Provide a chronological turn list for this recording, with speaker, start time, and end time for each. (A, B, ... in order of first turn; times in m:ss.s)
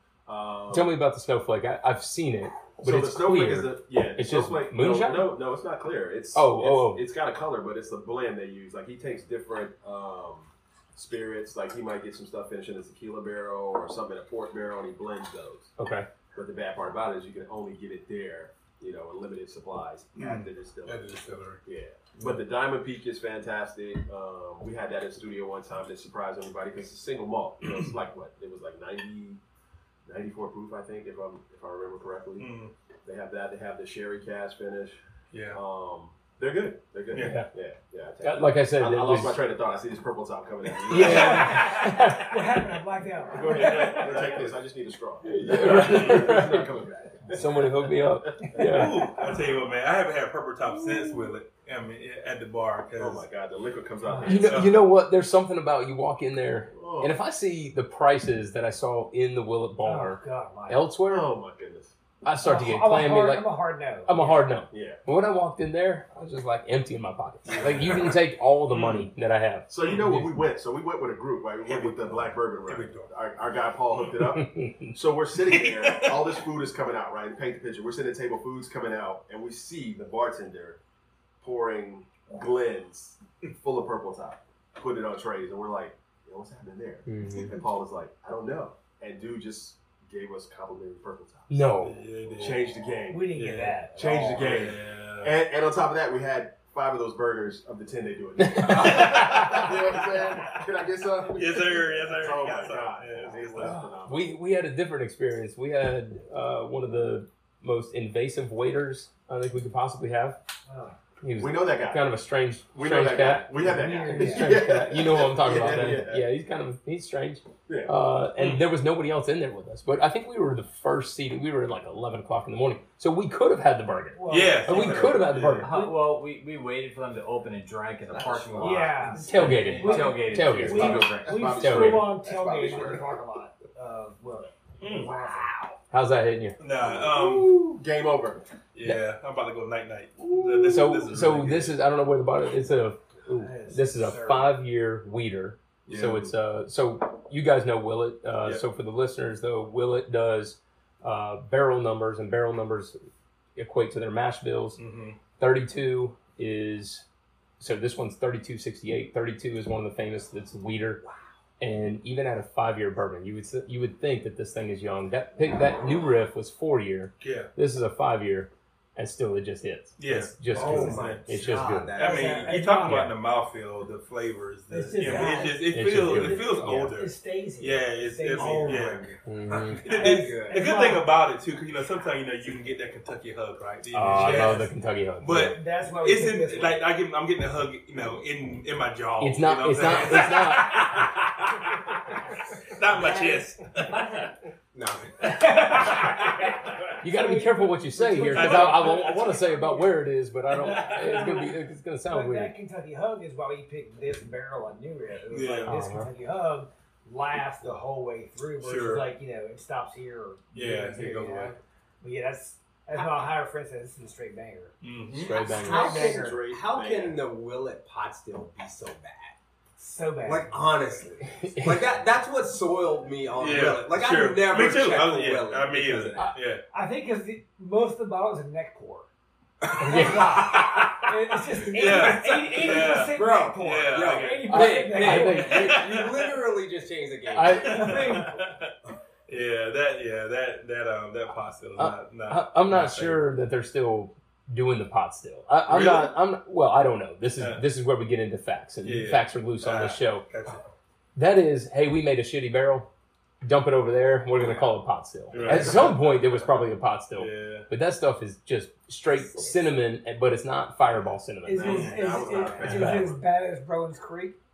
0:00.3-0:01.0 A
0:00.7-0:05.3 B
0:02.8-0:15.7 A
0:06.3-0:07.0 B
0:15.8-0:16.1 B
0:16.3-0:29.4 A
0:20.2-0:21.6 C
0:27.6-0:28.0 C
0:30.1-0:32.5 A
0:32.4-0:32.7 C
0:33.0-0:35.0 A
0:35.3-0:35.6 C
0:35.5-0:41.6 A
0:37.1-0:37.4 C
0:37.2-0:37.5 B
0:38.2-0:39.4 B
0:40.9-0:42.0 C
0:40.9-0:42.4 B
0:41.1-0:44.0 D
0:43.3-0:48.8 A
0:43.5-0:44.5 C
0:45.2-0:46.7 B
0:45.5-0:46.4 C
0:47.3-0:49.0 B
0:48.6-0:53.2 C
0:53.0-0:54.7 A
0:54.3-1:01.4 B
0:54.3-0:54.8 C
0:56.7-0:57.2 A
0:59.8-1:00.8 D
1:01.1-1:01.9 A
1:02.2-1:03.5 B
1:02.4-1:04.4 D
1:04.0-1:10.3 B
1:04.7-1:05.0 A
1:07.5-1:08.2 C
1:08.7-1:09.1 C
1:09.7-1:20.8 A
1:09.8-1:10.1 C
1:11.6-1:13.1 C
1:14.3-1:15.0 B
1:15.4-1:16.4 C
1:21.4-1:31.7 A
1:27.1-1:27.6 B
1:31.5-1:32.0 B
1:31.8-1:32.7 C
1:32.4-1:33.4 A
1:33.1-1:34.5 D
1:33.3-1:35.4 C
1:33.9-1:44.4 A
1:38.4-1:39.7 B
1:41.4-1:43.8 C
1:44.0-1:50.4 B
1:50.7-1:51.0 D
1:51.2-2:05.7 B
1:51.4-1:52.1 A
1:52.7-1:56.3 A
1:53.6-1:54.6 D
1:57.7-1:57.9 A
1:58.4-1:58.6 C
2:04.2-2:05.1 D
2:04.3-2:05.7 C
2:05.4-2:11.5 E
2:08.2-2:08.8 A
2:08.6-2:15.5 D
2:09.2-2:12.1 B
2:10.7-2:13.1 A
2:14.8-2:15.2 C
2:15.9-2:16.6 B
2:16.6-2:17.6 C
2:16.8-2:18.4 A
2:18.7-2:21.8 C
2:20.2-2:20.8 A
2:20.4-2:33.0 B
2:23.3-2:24.6 D
2:25.9-2:26.3 A
2:33.6-2:34.8 B
2:34.8-2:35.2 C
2:35.4-2:37.0 B
2:37.6-2:41.0 B
2:41.6-2:52.0 B
2:47.2-2:47.5 C
2:50.0-3:11.5 C
2:50.5-2:52.6 F
2:52.0-2:53.0 D
2:52.8-2:53.1 B
2:54.7-2:59.0 D
2:55.7-2:56.9 B
2:58.3-2:59.2 F
2:59.2-2:59.8 B
2:59.8-3:00.6 F
2:59.9-3:01.1 D
3:03.9-3:05.6 B
3:05.5-3:06.8 D
3:09.2-3:10.9 B
3:12.7-3:14.3 C
3:13.0-3:13.4 D
3:14.7-3:15.8 F
3:15.2-3:16.5 D
3:17.0-3:22.6 B
3:17.0-3:20.0 D
3:18.3-3:19.3 C
3:20.6-3:21.5 D
3:20.7-3:21.2 C
3:22.1-3:34.7 D
3:25.3-3:25.8 C
3:25.7-3:26.1 B
3:28.6-3:29.1 C
3:30.5-3:31.6 C
3:34.8-3:35.4 C
3:35.2-3:36.0 B
3:35.4-3:36.4 D
3:35.7-3:39.4 F
3:35.8-3:37.2 A
3:39.8-3:40.6 D
3:40.2-3:46.3 F
3:41.4-3:41.8 B
3:43.4-3:46.6 C
3:46.7-3:49.1 D
3:49.8-3:50.6 B
3:49.8-3:55.5 D
3:50.5-3:51.0 C
3:51.6-3:54.5 C
3:52.0-3:57.9 F
3:54.5-3:55.9 B
3:55.1-3:56.4 C
3:57.3-3:58.0 B
3:57.6-3:58.7 C
3:57.7-3:58.4 D
3:59.3-4:03.3 C
4:01.8-4:10.2 B
4:05.7-4:06.2 C
4:07.4-4:07.6 C
4:08.8-4:10.6 C
4:11.2-4:12.9 B
4:13.4-4:21.9 B
4:15.3-4:16.6 C
4:15.4-4:15.7 A
4:17.2-4:17.7 C
4:19.2-4:19.7 D
4:20.9-4:23.1 A
4:21.5-4:24.4 D
4:21.6-4:22.8 C
4:22.6-4:23.2 B